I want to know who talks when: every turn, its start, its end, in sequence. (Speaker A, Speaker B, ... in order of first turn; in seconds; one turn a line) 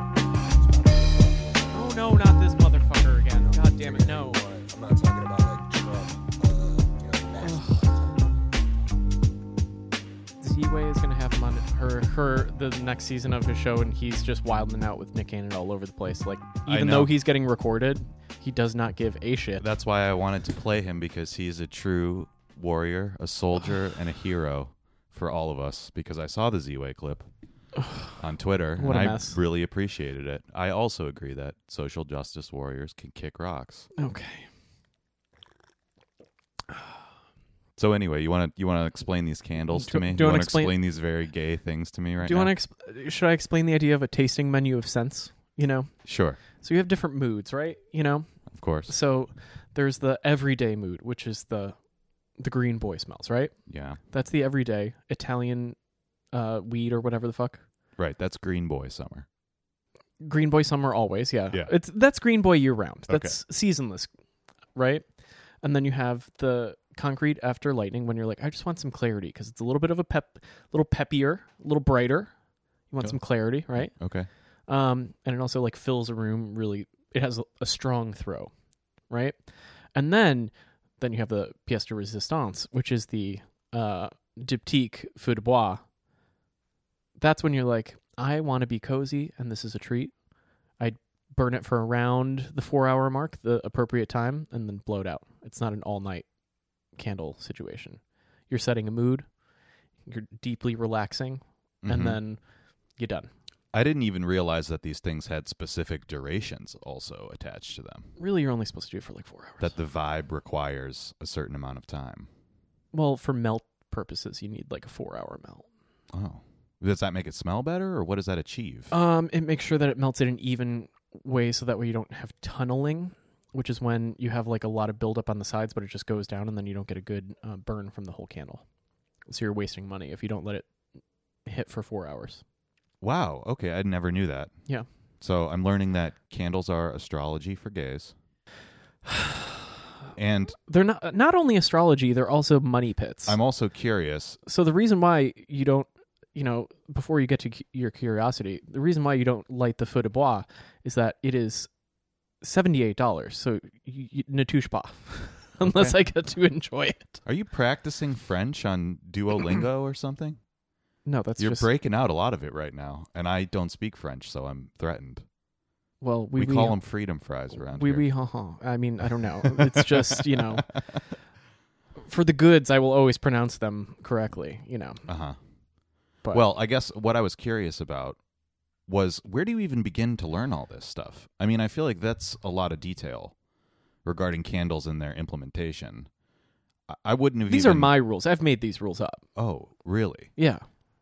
Speaker A: 0.5-2.4
Speaker B: 1.7-4.4
Speaker A: 3.1-9.3
Speaker B: 7.4-7.9
Speaker B: 10.4-19.7
Speaker C: 16.7-17.1
Speaker C: 19.6-27.3
Speaker C: 28.2-33.9
Speaker B: 28.8-29.4
Speaker B: 34.0-34.5
Speaker C: 37.8-42.5
Speaker B: 39.7-40.8
Speaker B: 42.2-45.9
Speaker C: 46.0-46.4
Speaker B: 46.6-48.3
Speaker C: 48.5-48.9
Speaker B: 48.9-51.8
Speaker B: 52.4-53.5
Speaker C: 53.7-54.0
Speaker B: 54.1-55.8
Speaker B: 56.3-57.6
Speaker C: 58.0-59.3
Speaker B: 60.2-64.1
Speaker C: 63.1-63.4
Speaker B: 64.8-65.1
Speaker B: 65.6-72.3
Speaker B: 72.9-74.0
Speaker C: 73.7-74.3
Speaker B: 74.7-78.5
Speaker B: 79.1-79.4
Speaker B: 79.9-85.8
Speaker B: 87.2-90.2
Speaker B: 90.8-96.3
Speaker B: 97.0-99.3
Speaker B: 100.0-102.4
Speaker C: 101.8-102.2
Speaker B: 103.0-103.3
Speaker C: 103.7-108.1
Speaker B: 108.2-109.7
Speaker C: 109.6-112.3
Speaker B: 112.9-115.7
Speaker C: 116.1-118.9
Speaker B: 118.9-128.6
Speaker B: 129.3-130.7
Speaker B: 131.4-132.4
Speaker C: 133.0-134.5
Speaker C: 135.2-138.1
Speaker B: 139.1-139.5
Speaker C: 140.2-140.6
Speaker B: 140.6-143.4
Speaker C: 143.3-144.4
Speaker B: 144.5-151.7
Speaker B: 152.4-157.2
Speaker C: 155.6-156.0
Speaker C: 157.2-160.4
Speaker B: 161.1-161.7
Speaker C: 161.4-165.2
Speaker B: 166.0-166.8
Speaker C: 166.4-168.1
Speaker B: 167.6-170.7
Speaker C: 169.4-171.0
Speaker B: 172.0-175.0
Speaker C: 175.1-175.4
Speaker C: 176.3-178.2
Speaker C: 178.9-183.3
Speaker C: 184.1-186.1
Speaker C: 186.9-187.9
Speaker B: 187.5-189.2
Speaker C: 189.4-190.3
Speaker B: 190.4-190.6